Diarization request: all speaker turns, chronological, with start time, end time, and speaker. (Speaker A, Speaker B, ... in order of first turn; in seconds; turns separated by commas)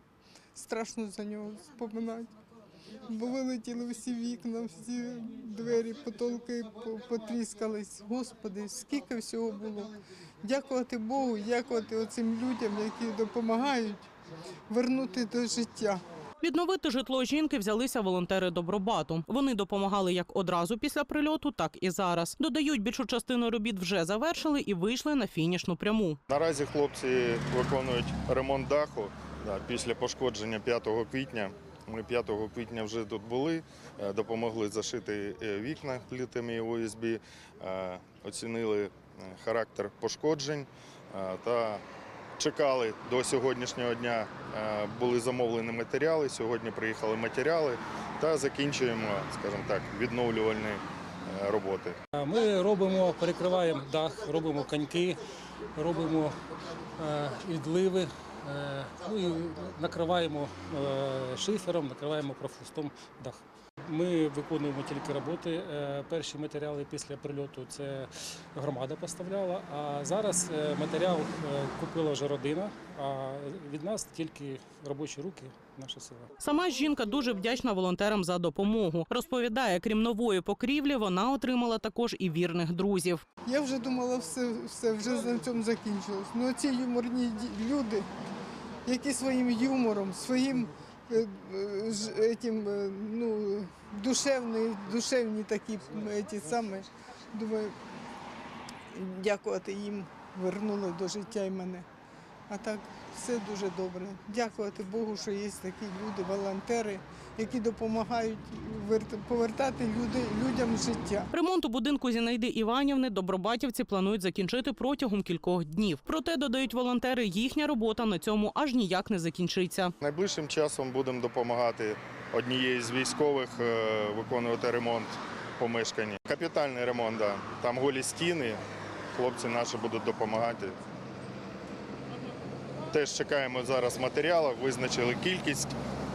Speaker A: 0.6-2.3, Speaker A: 3.0-14.1, Speaker A: 14.7-16.0, Speaker B: 16.4-26.2, Speaker C: 26.3-41.8, Speaker C: 42.4-52.0, Speaker D: 52.1-55.2, Speaker D: 55.8-56.4, Speaker D: 57.0-76.3, Speaker B: 76.4-83.2, Speaker A: 83.5-88.1, Speaker A: 88.8-97.8, Speaker A: 98.9-101.9, Speaker A: 102.5-111.3, Speaker B: 111.3-119.9, Speaker C: 120.0-128.6, Speaker C: 129.1-130.8, Speaker C: 132.9-135.8